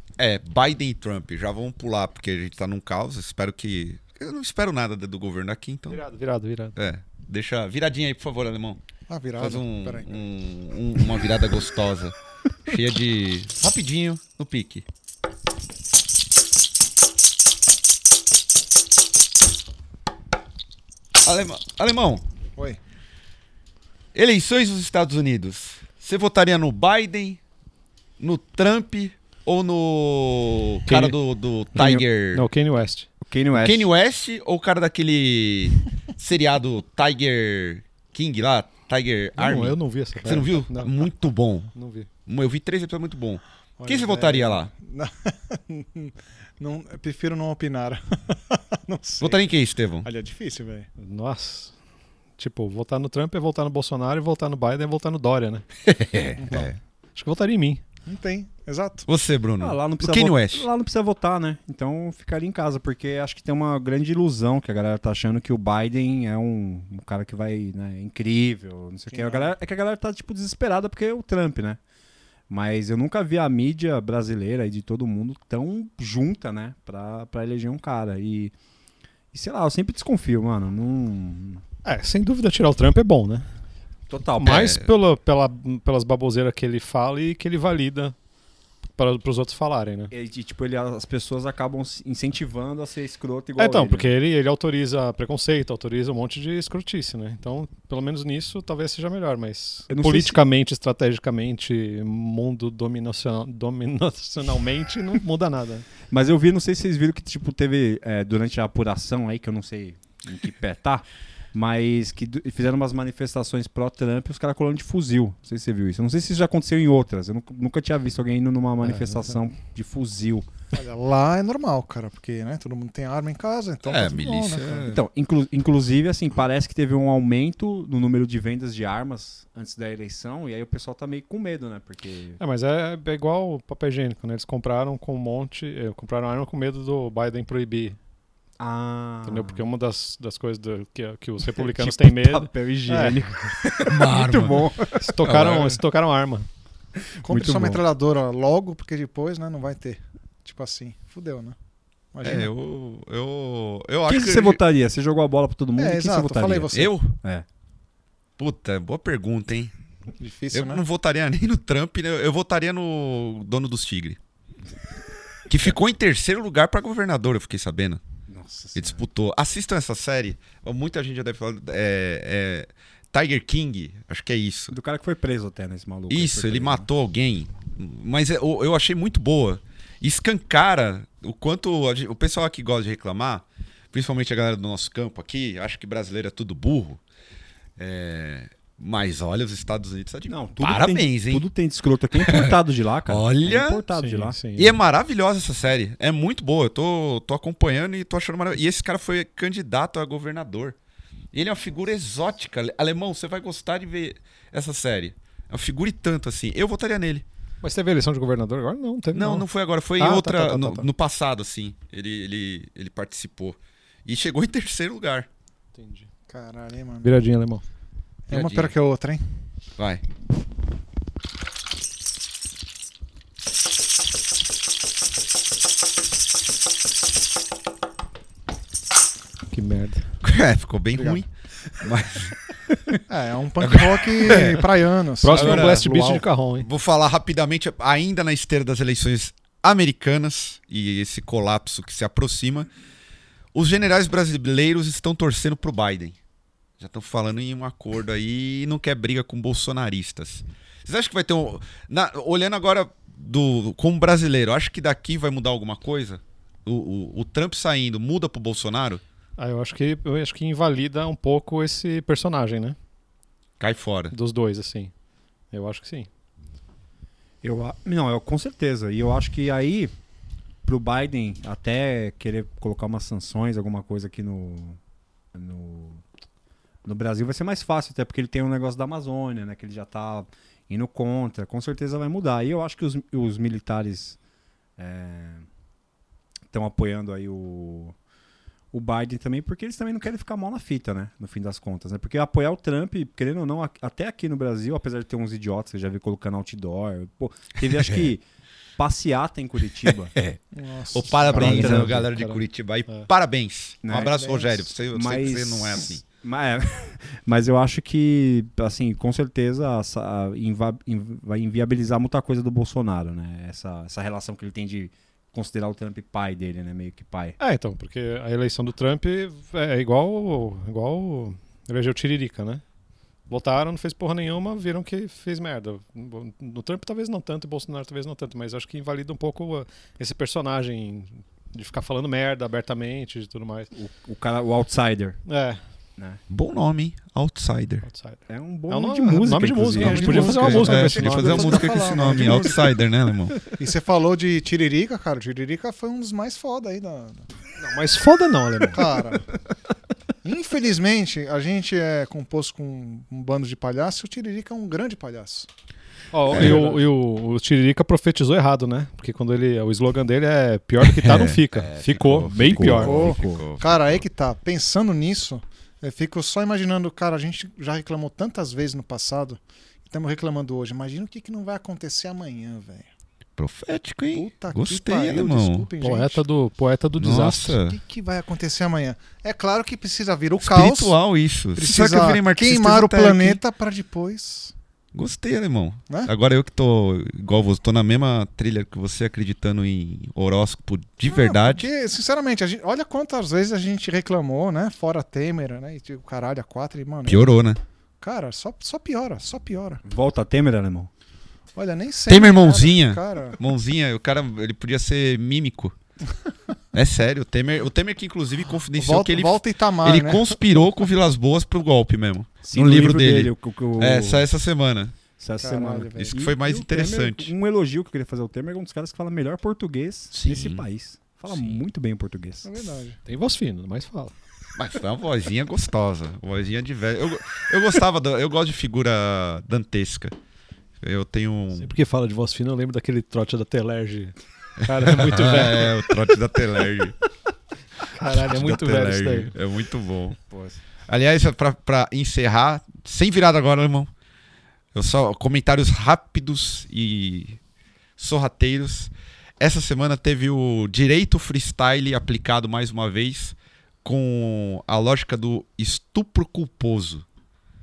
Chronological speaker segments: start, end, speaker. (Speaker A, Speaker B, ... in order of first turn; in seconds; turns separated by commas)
Speaker A: 0.2-6.0, Speaker B: 5.9-6.8, Speaker A: 6.7-8.8, Speaker C: 9.1-10.2, Speaker A: 9.4-14.8, Speaker A: 21.2-22.2, Speaker A: 24.1-27.4, Speaker A: 28.2-32.5, Speaker B: 30.9-31.1, Speaker B: 31.8-33.1, Speaker D: 33.2-33.9, Speaker A: 33.5-41.7, Speaker B: 39.4-41.0, Speaker B: 41.7-42.1, Speaker A: 42.2-44.7, Speaker C: 43.8-49.4, Speaker A: 49.2-50.1, Speaker C: 50.0-50.9, Speaker B: 51.0-51.7, Speaker B: 52.4-55.6, Speaker A: 55.8-56.8, Speaker C: 56.4-56.7, Speaker B: 57.1-57.8, Speaker C: 58.0-59.1, Speaker A: 59.1-60.7, Speaker D: 59.6-71.8, Speaker C: 69.1-69.5, Speaker D: 72.5-78.5, Speaker D: 79.3-81.6, Speaker B: 81.8-83.5, Speaker D: 84.1-84.8, Speaker B: 84.4-88.2, Speaker A: 84.4-84.9, Speaker B: 89.0-90.1, Speaker D: 90.1-94.1, Speaker B: 93.6-105.9, Speaker D: 99.9-100.4, Speaker D: 106.1-120.5, Speaker B: 118.8-119.2, Speaker C: 120.7-124.9, Speaker A: 123.8-125.0, Speaker D: 124.8-132.4, Speaker B: 132.4-138.0, Speaker D: 138.6-139.6, Speaker B: 139.2-143.2, Speaker D: 141.4-145.1, Speaker A: 143.8-145.8, Speaker B: 145.0-146.5, Speaker D: 147.2-147.8, Speaker C: 147.2-151.6, Speaker C: 152.1-152.5, Speaker A: 152.2-154.6, Speaker D: 154.1-157.4, Speaker C: 155.8-156.9, Speaker A: 156.7-157.1, Speaker A: 158.4-159.7, Speaker C: 160.2-160.8, Speaker A: 160.5-164.2, Speaker A: 165.5-168.0, Speaker D: 168.3-169.0, Speaker A: 168.7-174.7, Speaker D: 174.7-176.9, Speaker A: 176.1-187.0, Speaker A: 187.8-191.5, Speaker D: 190.3-194.4, Speaker A: 192.1-193.8, Speaker B: 193.9-194.7, Speaker A: 194.6-200.8, Speaker A: 201.3-207.2, Speaker B: 207.6-209.4, Speaker A: 209.1-215.3, Speaker B: 210.0-210.9, Speaker B: 215.7-216.1, Speaker C: 216.3-217.1, Speaker B: 217.0-217.6, Speaker C: 218.3-219.2, Speaker A: 218.3-218.7, Speaker A: 219.8-220.0, Speaker B: 229.5-230.1, Speaker A: 230.2-231.3, Speaker A: 231.8-232.3, Speaker C: 233.1-236.2, Speaker A: 233.6-234.6, Speaker B: 234.3-234.5, Speaker B: 235.2-236.7, Speaker A: 235.3-235.9, Speaker A: 236.6-242.7, Speaker A: 243.5-246.2, Speaker A: 246.8-259.0, Speaker B: 259.4-262.8, Speaker A: 263.6-264.1, Speaker B: 264.1-264.9, Speaker B: 265.5-266.1, Speaker D: 267.4-269.9, Speaker D: 270.6-274.8, Speaker D: 275.3-276.0, Speaker D: 276.8-284.2, Speaker D: 284.8-285.5, Speaker D: 286.5-287.9, Speaker D: 288.7-298.2, Speaker A: 297.7-298.1, Speaker D: 298.8-300.1, Speaker A: 299.8-300.4, Speaker C: 300.5-301.7, Speaker A: 300.9-306.0, Speaker D: 301.3-302.1, Speaker B: 301.4-303.1, Speaker D: 303.8-317.4, Speaker C: 303.9-304.5, Speaker B: 317.4-322.6, Speaker B: 323.3-333.7, Speaker D: 333.7-335.2, Speaker B: 335.3-335.6, Speaker A: 336.3-337.9, Speaker B: 337.8-341.8, Speaker D: 338.3-340.6, Speaker C: 339.8-342.8, Speaker A: 340.2-343.4, Speaker C: 343.5-347.2, Speaker B: 347.6-348.9, Speaker C: 348.7-349.2, Speaker C: 350.2-355.5, Speaker B: 356.1-363.0, Speaker A: 356.3-356.7, Speaker C: 356.4-356.7, Speaker A: 360.8-364.0, Speaker D: 362.3-363.5, Speaker C: 362.7-372.9, Speaker A: 373.4-375.7, Speaker C: 374.1-376.2, Speaker B: 375.8-377.6, Speaker A: 376.9-377.8, Speaker C: 377.6-380.9, Speaker A: 380.4-383.4, Speaker C: 381.6-384.5, Speaker A: 384.9-391.7, Speaker C: 391.1-397.3, Speaker A: 397.1-397.6, Speaker C: 398.0-399.8, Speaker D: 399.8-400.9, Speaker C: 401.6-403.4, Speaker A: 402.1-405.7, Speaker A: 406.7-414.9, Speaker C: 408.7-410.4, Speaker D: 412.4-414.3, Speaker D: 415.2-422.6, Speaker C: 415.4-416.2, Speaker A: 416.1-417.3, Speaker A: 420.1-420.6, Speaker A: 421.3-421.6, Speaker C: 422.4-423.0, Speaker B: 423.1-424.1, Speaker A: 424.6-430.1, Speaker A: 430.8-431.7, Speaker B: 431.6-436.0, Speaker A: 434.6-436.9, Speaker B: 437.9-439.3, Speaker A: 437.9-440.2, Speaker D: 440.3-440.6, Speaker A: 440.9-443.9, Speaker A: 444.7-447.4, Speaker A: 448.0-457.0